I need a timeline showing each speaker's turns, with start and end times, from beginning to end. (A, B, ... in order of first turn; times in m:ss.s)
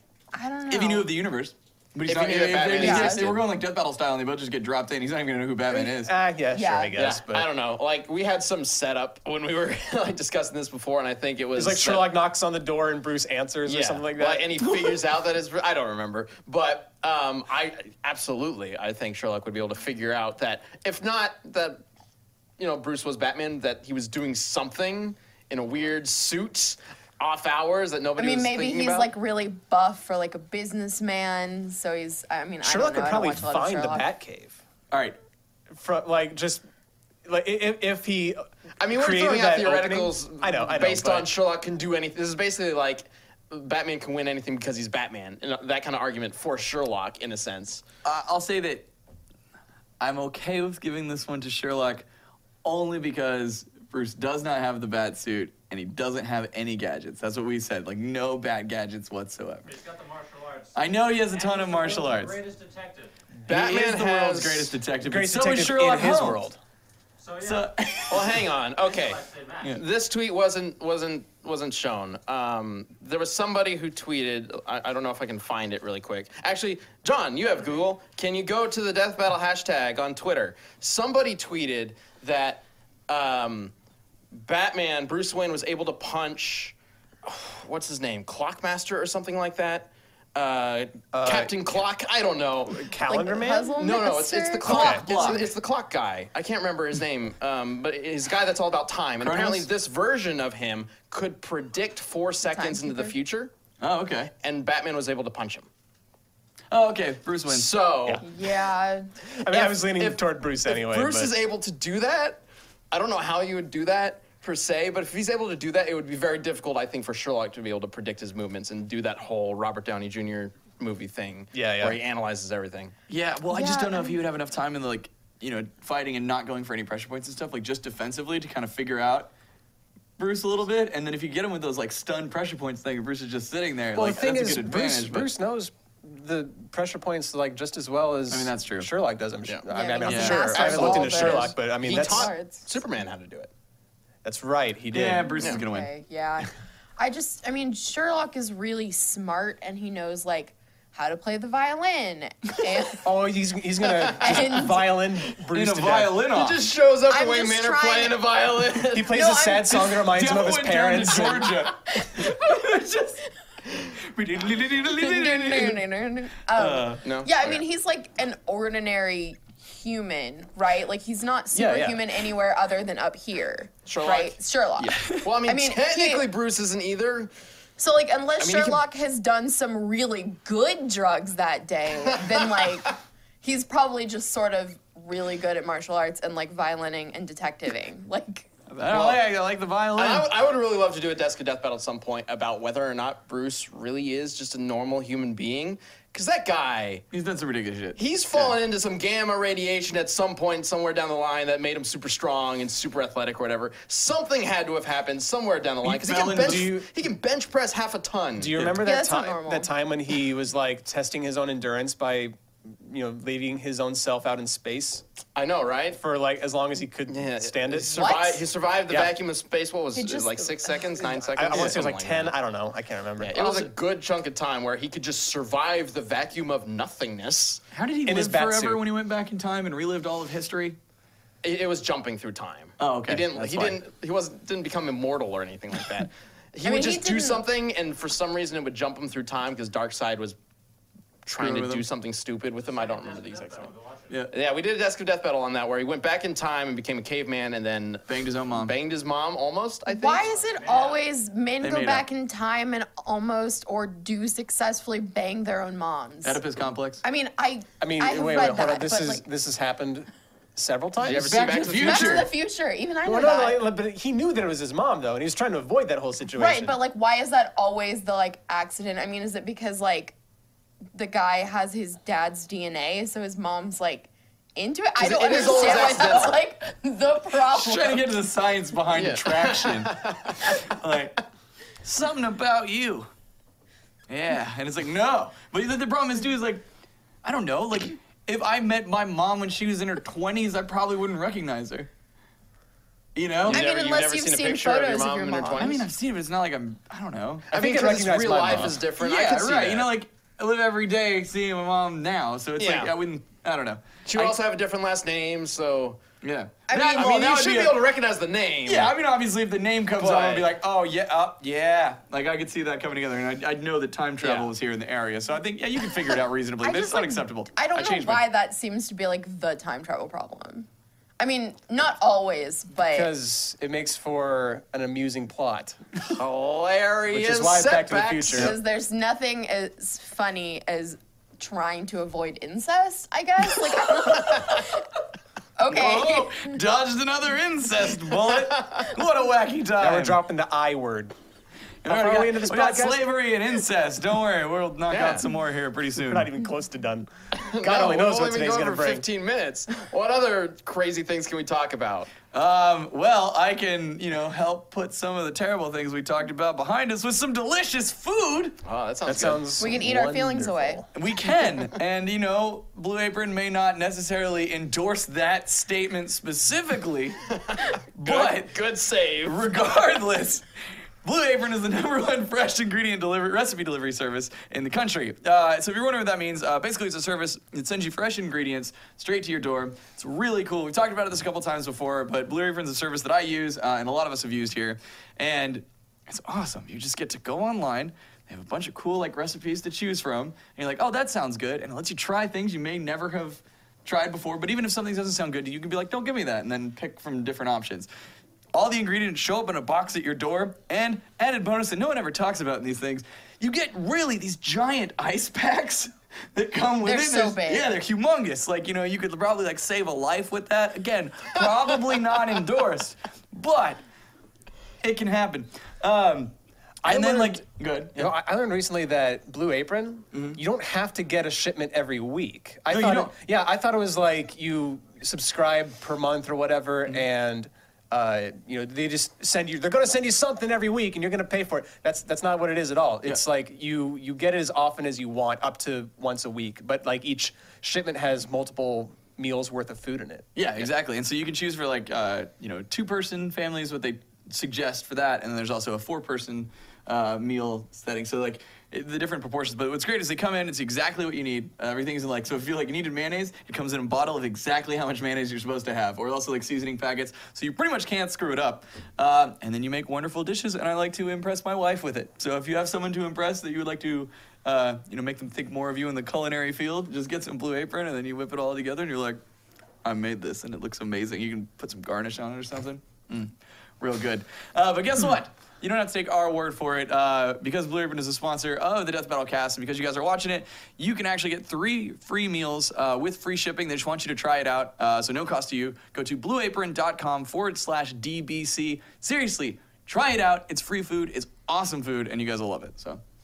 0:00.3-0:01.1 A
0:00.7-0:06.1 B
0:02.1-0:03.4 C
0:02.8-0:03.3 A
0:05.7-0:07.5 D
0:06.5-0:07.0 A
0:07.0-0:12.1 C
0:11.6-0:14.5 D
0:13.7-0:21.8 C
0:22.6-0:29.1 C
0:28.2-0:34.1 A
0:32.6-0:34.6 D
0:34.9-0:35.2 B
0:35.7-0:36.6 D
0:37.2-0:41.3 D
0:38.8-0:47.8 C
0:48.0-0:48.9 B
0:50.0-0:52.0 B
0:52.6-0:59.7 B
0:59.6-1:03.1 E
1:00.8-1:02.4 B
1:03.4-1:06.4 B
1:03.5-1:04.7 C
1:05.0-1:06.6 D
1:07.2-1:09.8 E
1:07.4-1:08.4 B
1:08.1-1:23.7 C
1:24.4-1:32.9 C
1:31.1-1:31.8 D
1:32.7-1:33.8 D
1:33.1-1:35.4 A
1:33.8-1:43.5 C
1:34.6-1:35.5 B
1:34.7-1:35.0 D
1:39.2-1:39.7 B
1:42.5-1:43.1 A
1:43.8-1:44.3 B
1:44.4-1:45.7 C
1:46.7-1:47.7 B
1:47.5-1:48.2 C
1:48.2-1:49.1 A
1:49.4-1:51.3 D
1:49.5-2:02.9 C
2:01.5-2:02.0 D
2:03.1-2:09.3 B
2:03.5-2:04.2 A
2:10.2-2:15.3 B
2:13.9-2:22.3 D
2:18.3-2:18.9 B
2:19.7-2:22.7 A
2:20.1-2:20.4 B
2:20.3-2:23.5 C
2:24.2-2:25.4 D
2:24.9-2:25.9 B
2:25.4-2:33.0 A
2:33.0-2:36.2 D
2:34.1-2:34.9 A
2:35.5-2:36.7 B
2:36.3-2:39.2 C
2:37.1-2:38.2 A
2:38.9-2:41.5 D
2:39.1-2:39.8 A
2:39.7-2:43.2 B
2:41.9-2:42.8 A
2:43.8-2:45.8 B
2:44.9-2:56.3 A
2:46.5-2:47.0 B
2:47.0-2:47.6 C
2:51.5-2:52.0 D
2:53.9-2:57.3 C
2:57.8-3:08.5 A
2:58.4-2:58.8 C
3:02.4-3:02.7 C
3:08.7-3:10.3 B
3:08.9-3:09.2 C
3:10.0-3:17.0 C
3:17.1-3:18.6 B
3:18.0-3:28.6 C
3:25.8-3:26.8 B
3:26.4-3:26.9 D
3:28.4-3:35.0 D
3:28.6-3:28.8 B
3:28.8-3:29.7 A
3:35.4-3:36.0 C
3:35.9-3:38.2 D
3:37.1-3:42.3 C
3:38.0-3:38.4 A
3:39.9-3:40.8 A
3:41.0-3:43.6 D
3:41.5-3:41.8 B
3:43.2-3:47.6 C
3:47.7-3:50.8 B
3:48.1-3:48.8 D
3:51.4-4:00.4 C
3:52.8-3:53.8 B
3:56.6-3:57.4 A
4:01.2-4:03.7 C
4:01.4-4:01.8 B
4:02.7-4:04.2 E
4:04.3-4:10.3 C
4:08.1-4:08.8 B
4:09.9-4:16.4 A
4:10.3-4:11.0 E
4:11.6-4:12.1 B
4:16.2-4:17.0 B
4:17.0-4:19.2 A
4:17.8-4:21.4 D
4:21.0-4:22.3 C
4:21.0-4:22.3 B
4:21.8-4:23.6 A
4:23.0-4:26.8 D
4:26.4-4:30.2 A
4:30.9-4:38.0 A
4:35.0-4:36.4 C
4:35.4-4:36.2 B
4:37.5-4:41.2 B
4:38.9-4:40.6 C
4:41.8-4:43.1 B
4:44.1-4:46.6 B
4:47.2-4:51.9 B
4:53.2-4:53.6 B
4:53.5-4:55.9 C
4:53.5-4:55.7 A
4:55.6-4:57.5 B
4:57.5-4:58.8 D
4:57.5-4:59.9 C
4:58.4-5:04.4 B
5:02.6-5:02.9 C
5:04.0-5:06.0 C
5:06.2-5:07.9 B
5:06.7-5:07.1 A
5:06.9-5:08.9 C
5:08.7-5:18.2 B
5:10.0-5:10.5 C
5:14.2-5:14.5 C
5:16.6-5:20.7 A
5:21.2-5:23.1 A
5:22.9-5:25.8 D
5:26.2-5:28.6 C
5:27.1-5:28.6 D
5:28.3-5:34.9 A
5:35.6-5:36.6 A
5:35.7-5:40.2 B
5:39.8-5:41.1 D
5:41.8-5:46.3 B
5:41.8-5:43.0 D
5:44.9-5:45.2 C
5:46.0-5:47.1 D
5:47.4-5:52.1 C
5:47.6-5:49.0 D
5:52.3-5:58.6 B
5:58.6-5:59.6 C
5:59.0-6:00.9 D
5:59.6-6:00.8 A
6:01.0-6:07.2 B
6:07.5-6:09.4 C
6:08.0-6:08.5 B
6:09.2-6:10.4 B
6:11.0-6:37.9 B
6:38.5-6:53.8 B
6:46.8-6:47.7 A
6:54.8-6:56.3 B
6:56.8-6:57.4 D
6:56.8-6:58.1 B
6:58.0-7:20.2 D
7:00.1-7:00.4 B
7:02.7-7:03.1 B
7:20.4-7:49.2 B
7:49.8-8:13.0 B